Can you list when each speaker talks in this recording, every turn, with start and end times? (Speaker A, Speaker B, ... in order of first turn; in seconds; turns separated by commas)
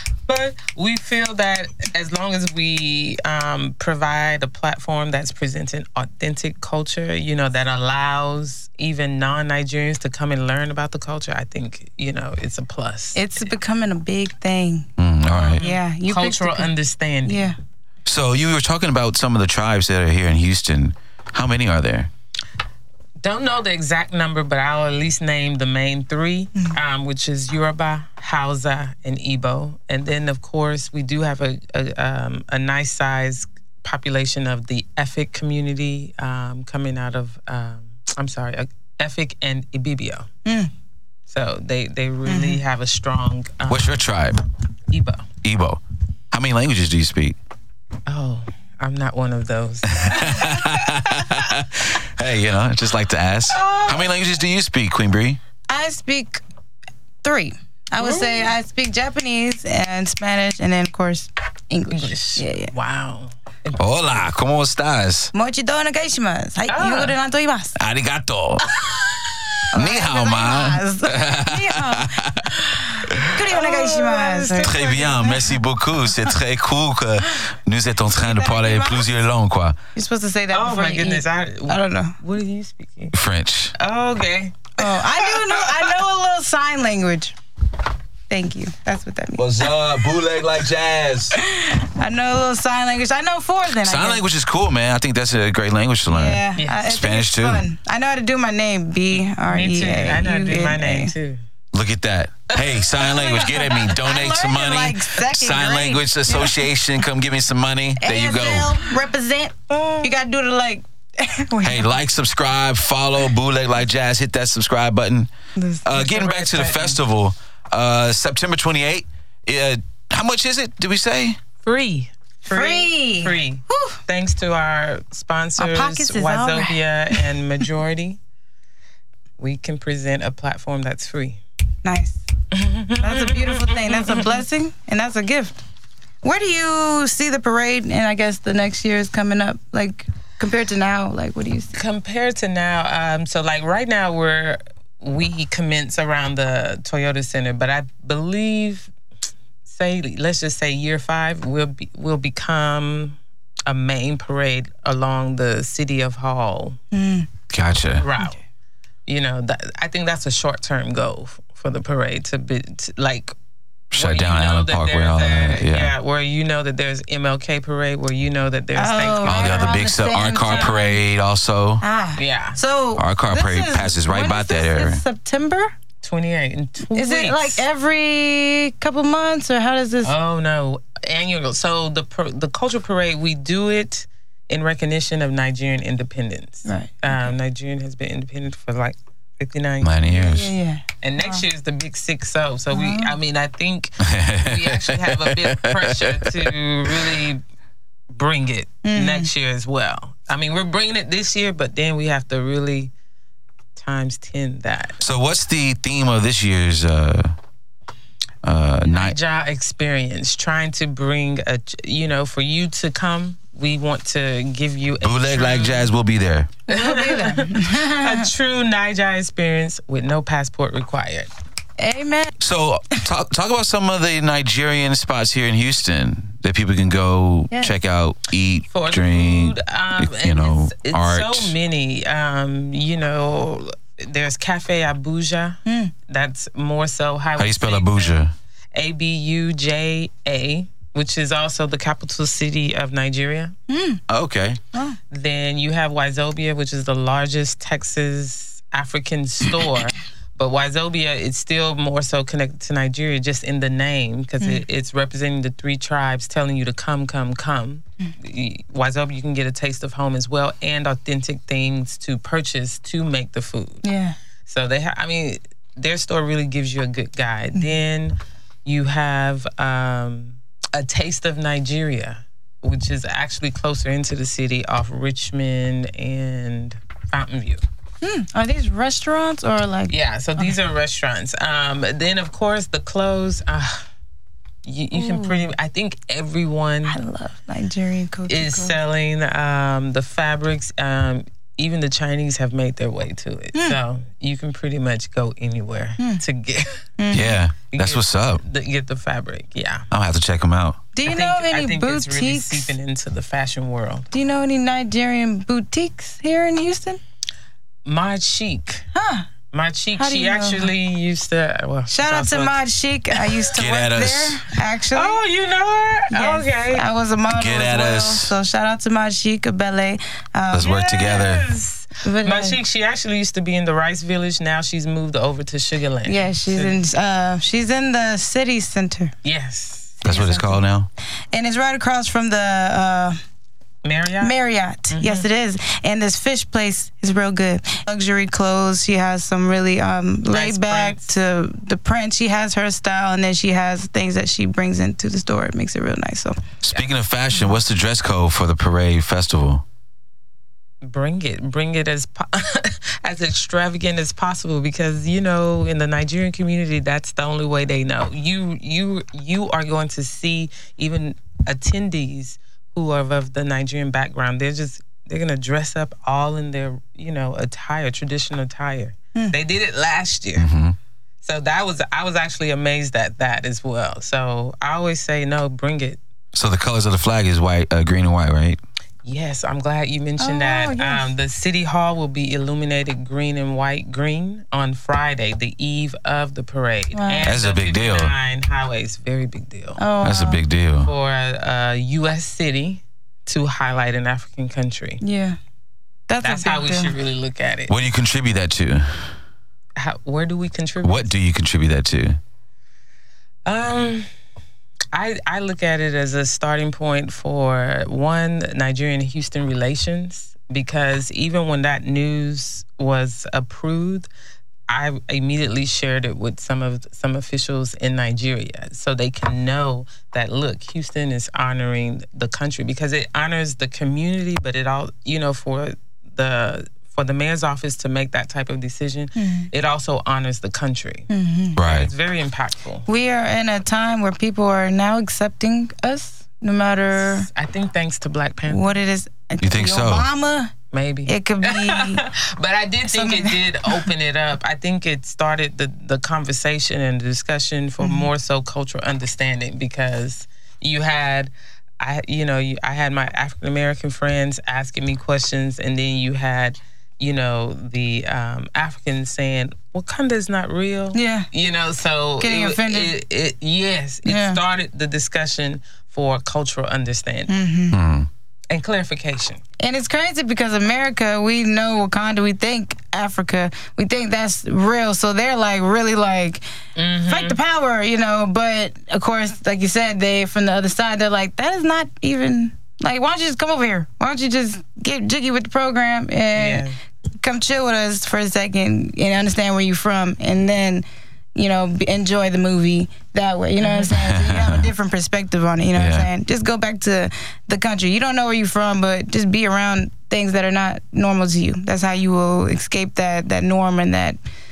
Speaker A: 0.3-13.5, Speaker B: 13.2-14.9, Speaker C: 15.0-15.6, Speaker A: 15.3-17.5, Speaker B: 15.5-16.7, Speaker B: 17.2-17.6, Speaker C: 18.1-22.1, Speaker A: 23.2-40.3, Speaker B: 40.5-40.7, Speaker A: 41.3-43.9, Speaker B: 42.3-42.6, Speaker C: 43.7-44.4, Speaker A: 44.9-45.3, Speaker C: 45.4-47.4, Speaker A: 48.1-51.3, Speaker C: 49.9-55.4, Speaker A: 53.5-54.1, Speaker B: 55.7-56.4, Speaker B: 57.2-62.7, Speaker A: 58.0-58.5, Speaker A: 61.9-64.0, Speaker C: 63.8-65.3, Speaker B: 65.3-67.8, Speaker A: 66.7-67.2, Speaker C: 67.8-68.7, Speaker B: 69.7-72.3, Speaker C: 69.7-73.3, Speaker B: 73.2-75.5, Speaker A: 73.4-75.2, Speaker C: 74.6-79.8, Speaker B: 78.1-79.1, Speaker B: 80.0-82.2, Speaker A: 80.5-83.2, Speaker C: 83.1-83.7, Speaker A: 83.8-85.9, Speaker B: 84.8-87.3, Speaker B: 88.3-89.7, Speaker C: 89.4-91.4, Speaker B: 91.3-94.2, Speaker C: 93.7-97.7, Speaker B: 96.1-101.1, Speaker A: 96.6-96.9, Speaker A: 99.3-101.4, Speaker C: 101.7-108.8, Speaker A: 102.5-103.7, Speaker B: 103.0-106.6, Speaker B: 108.0-112.0, Speaker A: 109.7-110.1, Speaker C: 111.6-115.3, Speaker B: 115.6-116.0, Speaker C: 115.8-121.4, Speaker A: 116.0-117.0, Speaker A: 121.6-128.2, Speaker B: 122.5-124.0, Speaker B: 125.6-127.3, Speaker A: 129.4-131.4, Speaker B: 131.8-132.2, Speaker A: 132.5-134.4, Speaker B: 133.0-135.6, Speaker B: 136.2-141.8, Speaker A: 141.7-148.9, Speaker A: 149.7-156.8, Speaker B: 156.9-157.3, Speaker C: 157.5-158.1, Speaker A: 158.0-158.4, Speaker A: 159.1-163.3, Speaker C: 163.9-165.9, Speaker A: 163.9-169.8, Speaker B: 168.8-171.0, Speaker C: 169.2-171.8, Speaker A: 170.4-170.8, Speaker B: 171.8-175.7, Speaker A: 172.2-172.6, Speaker C: 173.0-175.0, Speaker A: 176.0-177.7, Speaker B: 176.9-180.1, Speaker A: 180.0-190.2, Speaker B: 186.7-187.2, Speaker C: 189.8-190.5, Speaker B: 190.1-191.4, Speaker A: 191.0-197.4, Speaker B: 192.7-193.2, Speaker C: 194.0-197.1, Speaker A: 198.1-202.9, Speaker B: 198.8-199.3, Speaker A: 203.8-205.0, Speaker C: 205.0-207.3, Speaker C: 208.4-209.2, Speaker A: 208.8-215.9, Speaker C: 215.0-216.5, Speaker B: 216.7-218.3, Speaker A: 216.7-221.3, Speaker B: 221.8-222.4, Speaker C: 222.4-231.6, Speaker A: 228.7-238.2, Speaker B: 235.7-235.9, Speaker C: 237.4-238.3, Speaker A: 238.7-243.6, Speaker B: 243.7-244.0, Speaker C: 244.1-244.6, Speaker B: 244.7-245.0, Speaker A: 245.1-263.8, Speaker B: 263.8-264.2, Speaker A: 264.5-277.6, Speaker B: 278.0-280.6, Speaker A: 279.9-283.9, Speaker A: 284.6-287.0, Speaker B: 284.9-285.5, Speaker B: 286.9-288.8, Speaker A: 288.3-296.9, Speaker B: 297.0-297.3, Speaker C: 297.1-298.4, Speaker A: 297.7-299.9, Speaker C: 299.9-300.8, Speaker B: 300.9-302.7, Speaker A: 301.1-304.1, Speaker B: 304.1-307.0, Speaker A: 307.9-308.9, Speaker B: 308.9-309.3, Speaker A: 309.5-312.6, Speaker B: 310.0-310.7, Speaker B: 311.9-315.2, Speaker A: 313.1-313.5, Speaker C: 313.6-314.4, Speaker A: 314.9-316.9, Speaker B: 316.1-321.2, Speaker C: 317.3-318.3, Speaker C: 320.5-321.5, Speaker A: 320.6-326.8, Speaker B: 322.0-322.6, Speaker B: 326.1-329.1, Speaker A: 329.2-330.0, Speaker B: 330.0-330.6, Speaker C: 330.0-330.9, Speaker B: 331.3-333.2, Speaker A: 333.8-334.3, Speaker B: 334.2-346.4, Speaker A: 334.9-335.3, Speaker A: 340.3-341.1, Speaker C: 346.6-349.6, Speaker A: 350.8-370.5, Speaker C: 370.4-370.8, Speaker A: 371.2-376.0, Speaker C: 376.3-378.6, Speaker A: 379.0-389.8, Speaker B: 380.2-381.1, Speaker B: 386.9-387.3, Speaker C: 387.2-388.1, Speaker B: 389.8-390.4, Speaker C: 390.0-390.9, Speaker A: 390.8-395.0, Speaker B: 395.0-395.4, Speaker B: 396.1-396.9, Speaker A: 396.2-397.8, Speaker C: 397.7-399.1, Speaker A: 399.8-401.1, Speaker C: 400.8-402.2, Speaker A: 403.5-404.1, Speaker A: 404.9-414.1, Speaker A: 414.7-432.9, Speaker B: 429.2-429.5, Speaker B: 431.1-431.6, Speaker C: 431.6-431.9, Speaker B: 432.9-437.3, Speaker A: 437.0-438.8, Speaker B: 438.5-440.5, Speaker C: 439.4-440.1, Speaker A: 440.7-467.4, Speaker B: 441.1-442.0, Speaker B: 442.9-443.9, Speaker B: 447.8-448.1, Speaker B: 460.9-461.3, Speaker B: 462.2-462.9, Speaker B: 464.1-464.4, Speaker B: 467.3-467.8, Speaker C: 467.7-468.1, Speaker A: 468.5-469.4, Speaker B: 469.6-476.4, Speaker A: 476.8-477.4, Speaker B: 477.1-486.7, Speaker A: 486.4-486.8, Speaker B: 487.2-504.2, Speaker A: 493.6-493.9, Speaker C: 493.9-494.7, Speaker C: 495.8-496.1